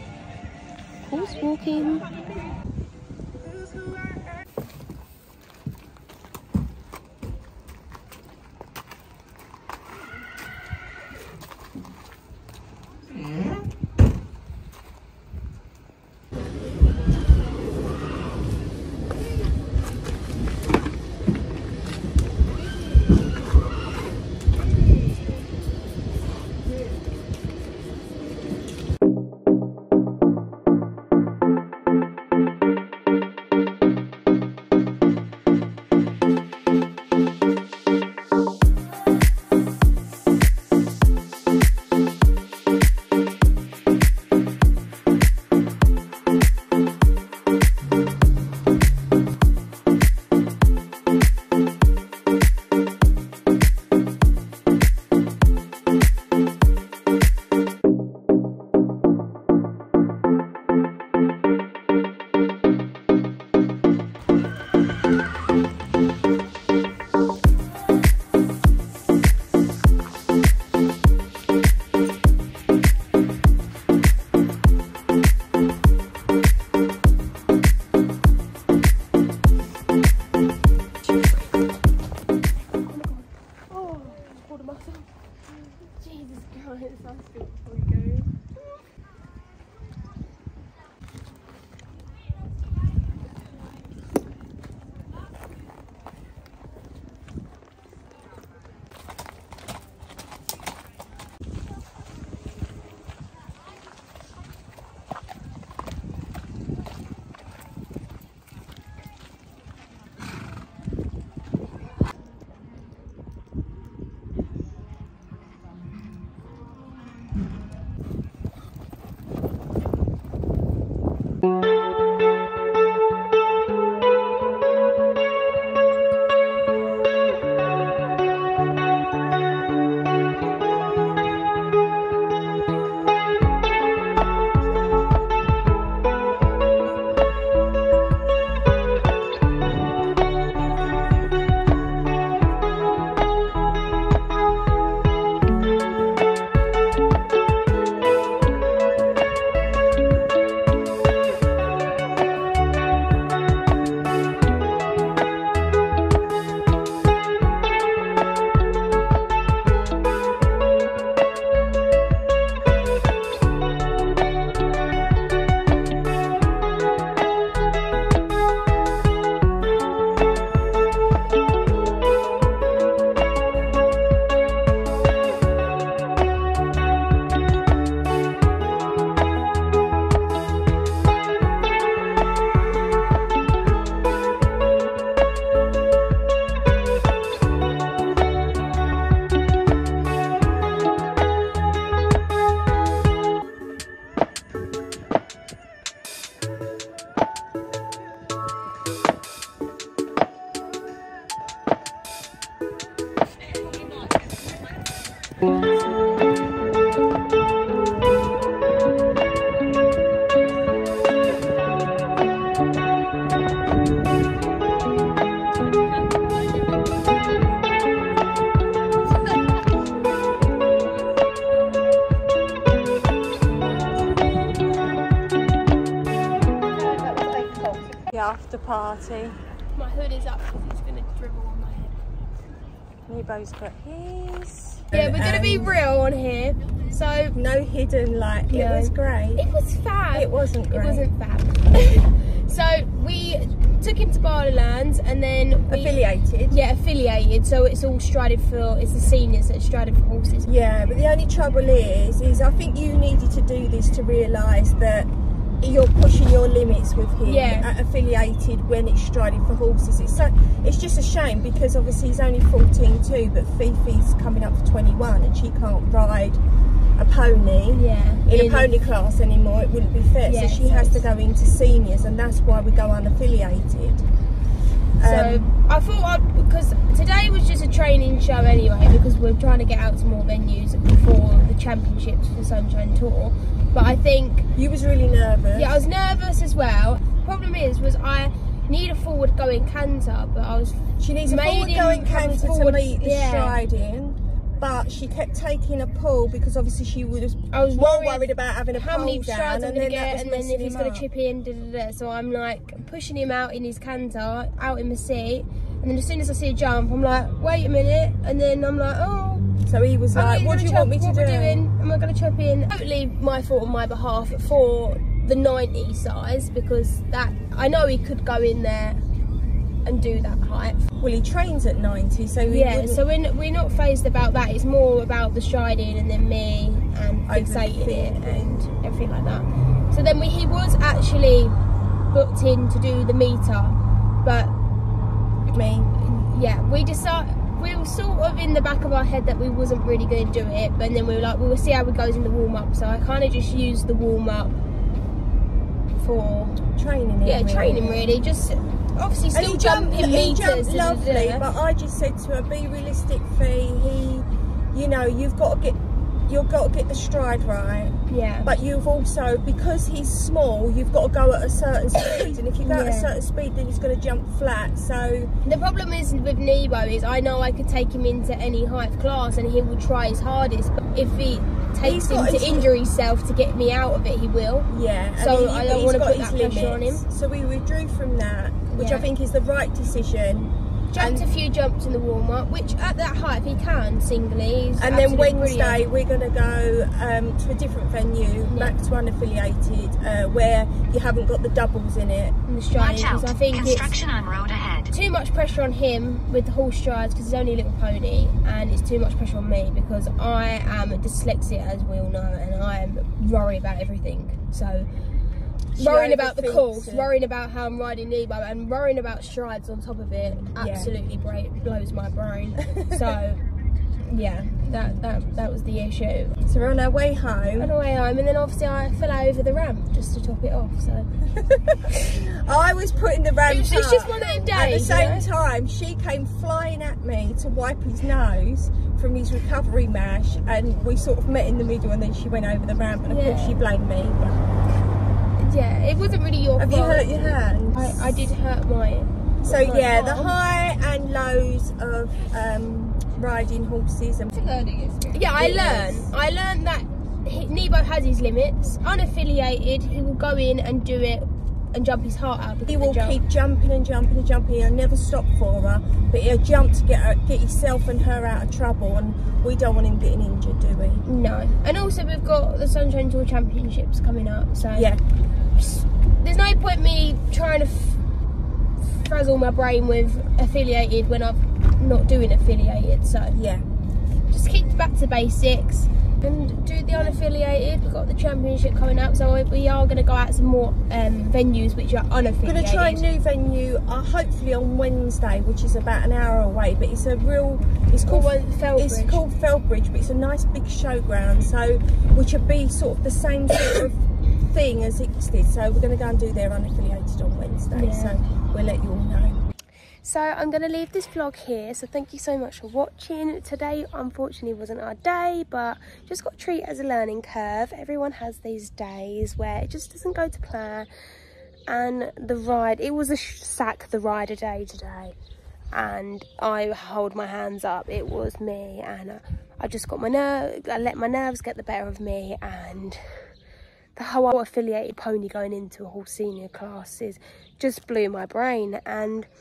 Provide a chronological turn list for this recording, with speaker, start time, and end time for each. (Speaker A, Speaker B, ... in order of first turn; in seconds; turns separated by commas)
Speaker A: 1.1-2.1, Speaker A: 82.8-88.3, Speaker B: 219.2-219.6, Speaker B: 226.7-229.4, Speaker A: 229.7-232.0, Speaker B: 233.1-235.8, Speaker A: 234.9-237.3, Speaker B: 237.3-239.4, Speaker A: 238.5-246.0, Speaker B: 240.1-241.1, Speaker B: 245.7-246.5, Speaker A: 246.5-250.5, Speaker B: 250.4-266.4, Speaker A: 257.2-257.7, Speaker B: 267.0-274.0, Speaker A: 267.7-268.7, Speaker A: 270.2-271.0, Speaker B: 275.0-275.5, Speaker A: 275.0-284.5, Speaker B: 284.5-285.8, Speaker A: 285.5-293.6, Speaker B: 291.0-301.0, Speaker A: 297.5-309.4, Speaker B: 309.6-311.6, Speaker A: 310.1-319.0, Speaker A: 319.9-320.8, Speaker B: 321.0-323.0, Speaker A: 322.4-331.6, Speaker B: 327.3-328.5, Speaker A: 332.1-334.5, Speaker B: 335.5-336.0, Speaker A: 336.0-344.6, Speaker A: 345.9-346.6, Speaker B: 346.7-348.2, Speaker A: 347.2-351.4, Speaker B: 349.3-365.3, Speaker A: 358.1-358.5, Speaker A: 362.6-363.1, Speaker A: 365.4-377.0, Speaker B: 371.8-372.7, Speaker B: 374.7-381.2, Speaker A: 378.7-379.1, Speaker A: 380.9-385.8, Speaker B: 384.8-392.4, Speaker A: 388.5-388.7, Speaker A: 392.5-393.9, Speaker C: 392.8-394.9, Speaker A: 394.9-404.9, Speaker B: 405.7-407.1, Speaker A: 405.8-413.4, Speaker B: 410.6-410.9, Speaker B: 412.6-413.1, Speaker A: 414.1-416.4, Speaker B: 416.4-417.7, Speaker A: 417.6-421.1, Speaker B: 421.3-434.4, Speaker A: 421.9-422.2, Speaker A: 423.5-425.3, Speaker A: 433.1-433.6, Speaker A: 435.4-440.3, Speaker B: 436.6-438.3, Speaker B: 439.4-446.1, Speaker A: 445.1-453.2, Speaker B: 452.7-461.0, Speaker A: 461.0-464.9, Speaker B: 464.7-465.0, Speaker A: 465.6-468.0, Speaker A: 468.8-473.4, Speaker B: 473.3-473.6, Speaker A: 474.3-483.0, Speaker B: 482.4-499.4, Speaker A: 488.0-489.2, Speaker A: 497.7-498.2, Speaker A: 500.0-510.9, Speaker A: 511.7-515.1, Speaker A: 515.7-523.2, Speaker A: 524.0-529.3